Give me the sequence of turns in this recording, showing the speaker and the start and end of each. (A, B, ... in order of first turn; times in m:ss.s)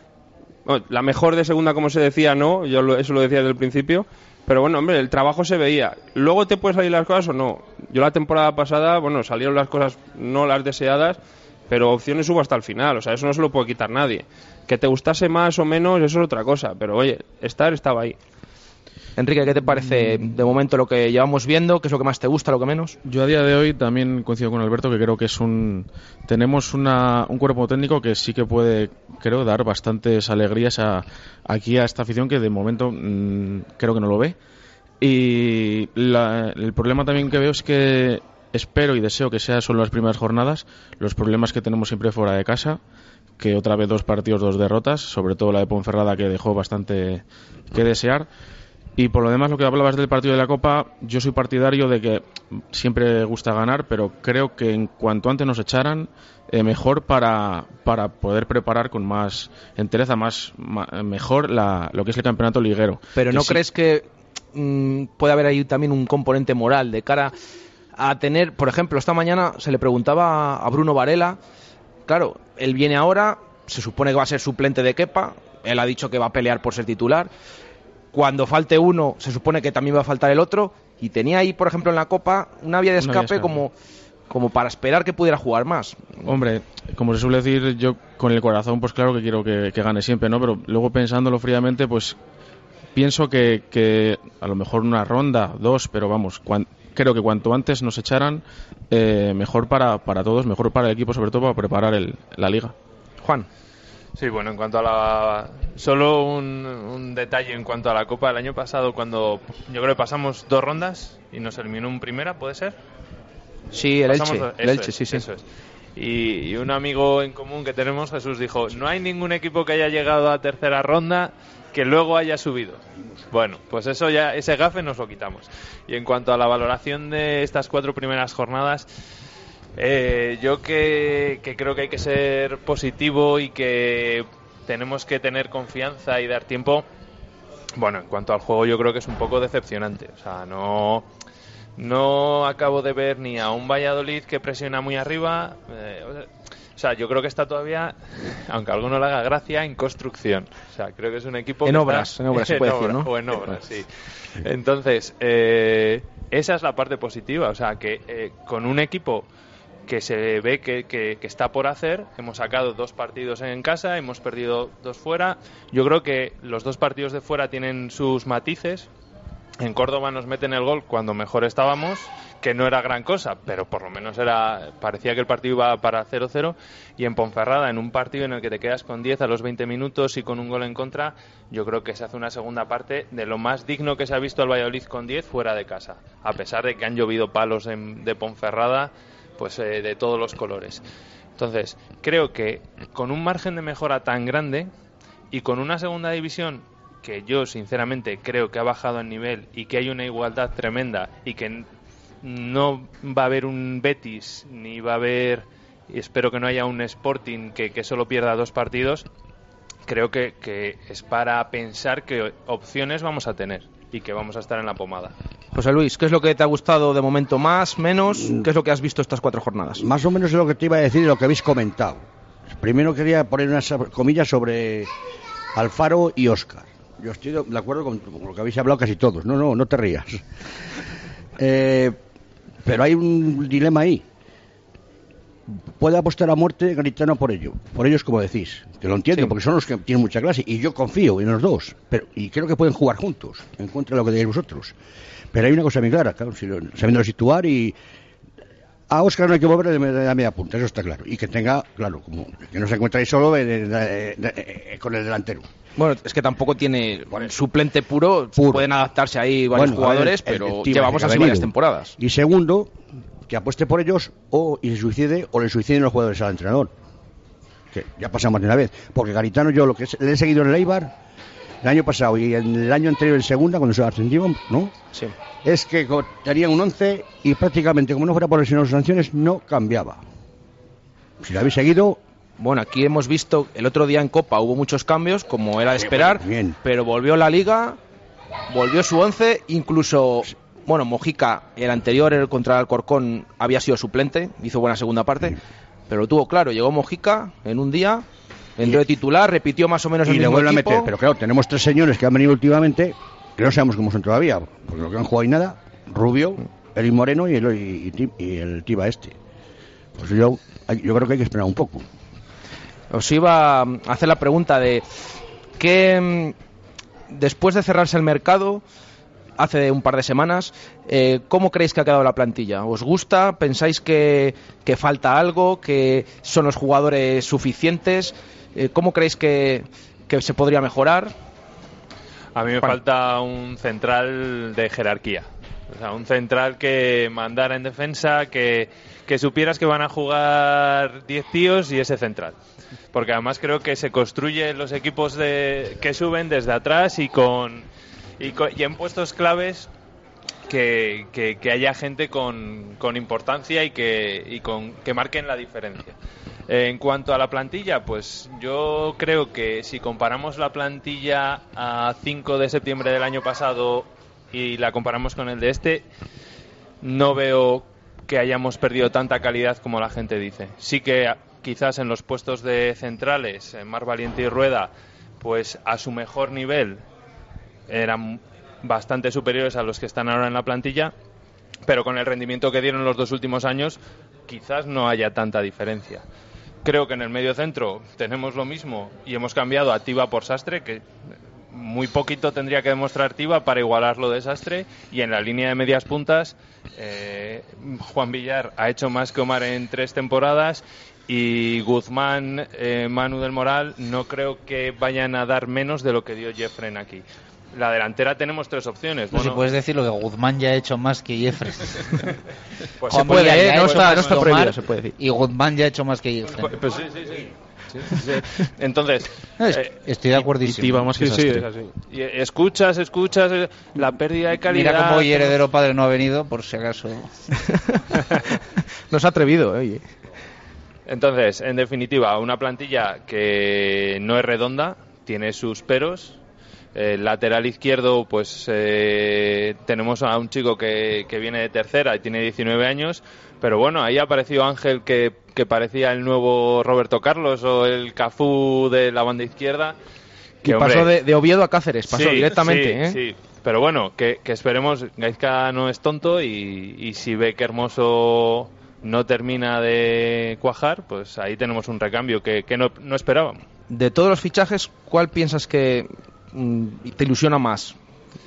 0:00.6-0:18.2 A
0:19.2-0:23.0 B
0:23.0-0:34.4 C
0:35.0-0:42.8 C
0:43.4-0:48.3 C
0:49.0-1:03.6 C
1:03.2-1:07.3 B
1:08.0-1:11.4 B
1:12.1-1:17.3 B
1:18.1-1:23.7 B
1:23.0-1:23.6 C
1:24.3-1:26.2 B
1:26.2-1:32.2 C
1:33.0-1:42.8 C
1:43.2-1:43.5 B
1:44.2-1:52.8 D
1:53.7-1:55.3 B
1:54.1-1:55.4 D
1:56.0-2:08.9 D
2:09.8-2:16.8 D
2:17.8-2:21.1 D
2:21.8-2:39.3 D
2:31.7-2:33.6 B
2:39.9-2:48.9 D
2:49.6-3:10.8 D
3:11.4-3:14.7 D
3:15.3-3:21.7 D
3:22.2-3:29.1 D
3:29.9-3:35.1 D
3:35.5-3:39.8 B
3:38.1-3:38.5 E
3:39.8-3:44.9 E
3:45.5-3:50.2 E
3:51.4-3:52.0 E
3:52.6-3:54.0 E
3:55.5-4:04.8 E
4:05.3-4:07.8 E
4:08.9-4:15.5 E
4:15.8-4:22.0 B
4:18.4-4:18.7 E
4:19.5-4:22.7 E
4:23.3-4:26.7 E
4:27.7-4:31.0 E
4:31.6-4:34.8 E
4:35.4-4:40.0 E
4:41.2-4:42.0 E
4:42.4-4:47.8 B
4:45.8-4:46.6 E
4:48.5-4:58.0 B
4:58.6-5:00.9 B
5:00.0-5:09.2 E
5:10.0-5:11.9 E
5:12.9-5:14.8 B
5:15.6-5:16.4 B
5:17.1-5:18.6 B
5:19.4-5:31.1 B
5:32.4-5:42.4 D
5:42.9-5:47.7 D
5:48.2-5:49.7 D
5:50.5-5:56.0 D
5:56.5-6:05.8 D
6:06.8-6:16.8 D
6:17.7-6:20.9 D
6:21.7-6:26.0 D
6:26.6-6:30.9 D
6:31.5-6:49.5 D
6:49.1-6:52.1 F
6:52.8-6:54.3 D
6:52.9-6:55.0 B
6:52.9-6:56.6 F
6:53.6-6:54.1 A
6:56.5-6:59.7 D
6:57.8-6:58.2 B
6:59.4-7:00.9 F
7:00.4-7:01.5 C
7:01.0-7:01.7 A
7:01.9-7:05.4 D
7:04.4-7:07.2 F
7:08.6-7:09.8 B
7:10.9-7:16.2 D
7:16.7-7:29.8 D
7:30.4-7:31.0 D
7:30.4-7:33.0 B
7:31.9-7:43.4 D
7:43.7-7:47.8 B